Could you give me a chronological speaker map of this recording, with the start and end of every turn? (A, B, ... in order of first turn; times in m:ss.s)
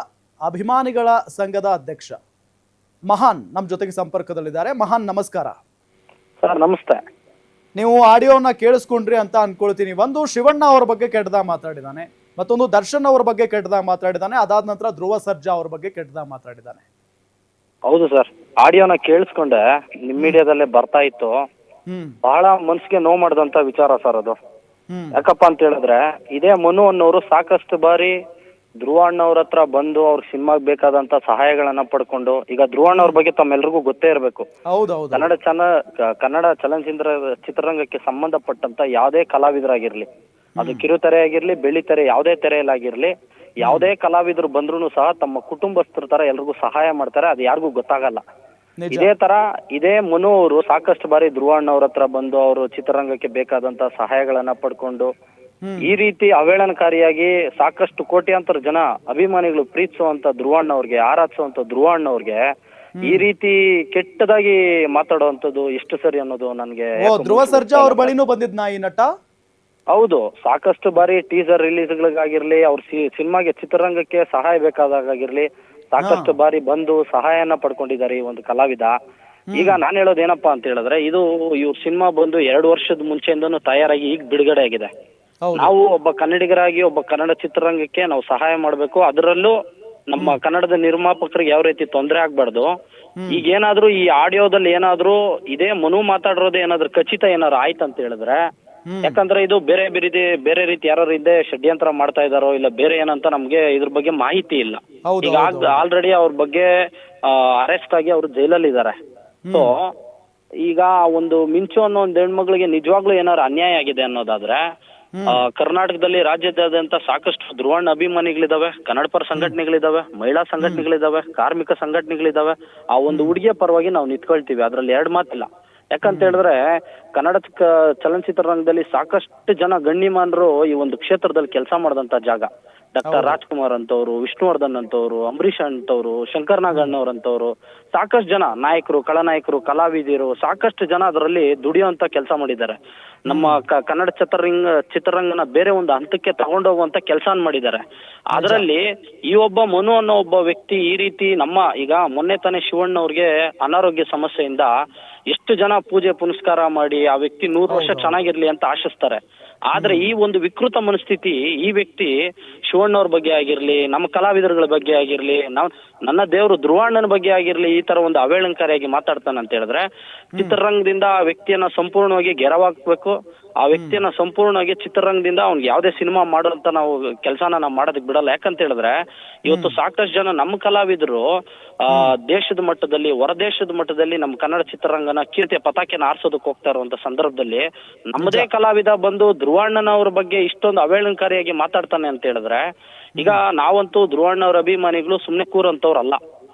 0:00.5-0:02.2 A
0:03.1-0:05.6 A
0:06.4-0:07.0 B
0:07.8-0:16.8 A
0:17.9-0:21.3 B
0:21.9-0:22.1 A
0:22.2-0:24.4 B
0:25.1-0:28.1 B
0:28.8-0:34.5 B
0:32.9-0:33.2 A
0:34.7-0:35.3 A
0:35.1-0:35.7 B
0:36.2-0:40.1 B
0:40.6-0:40.8 A
0:40.6-0:48.2 B
0:48.8-0:49.1 A
0:48.9-0:55.1 B
0:55.6-0:55.9 A
0:55.8-1:02.4 B
1:03.0-1:03.2 A
1:03.0-1:08.1 B
1:07.0-1:09.1 A
1:09.9-1:18.9 B
1:16.0-1:16.3 A
1:19.5-1:19.8 A
1:19.5-1:24.9 B
1:25.4-1:25.7 A
1:25.6-1:29.5 B
1:30.1-1:32.7 B
1:33.2-1:33.4 A
1:33.3-1:38.4 B
1:38.9-1:39.2 A
1:39.0-1:46.7 B
1:45.1-1:45.8 A
1:47.3-1:48.9 B
1:49.4-1:49.7 A
1:49.5-1:49.8 B
1:50.6-1:54.6 B
1:55.3-2:06.6 B
2:03.1-2:03.3 A
2:06.0-2:06.4 A
2:07.2-2:22.8 B
2:13.0-2:13.4 A
2:23.3-2:23.6 A
2:23.3-2:27.8 B
2:28.3-2:34.7 B
2:28.3-2:28.6 A
2:35.3-2:39.2 B
2:37.7-2:38.2 A
2:39.7-2:42.1 B
2:39.7-2:40.1 A
2:42.7-2:49.8 B
2:50.4-2:58.9 B
2:53.7-2:54.0 A
2:59.5-3:01.2 B
2:59.5-2:59.8 A
3:01.9-3:12.6 B
3:08.2-3:08.5 A
3:13.2-3:16.2 B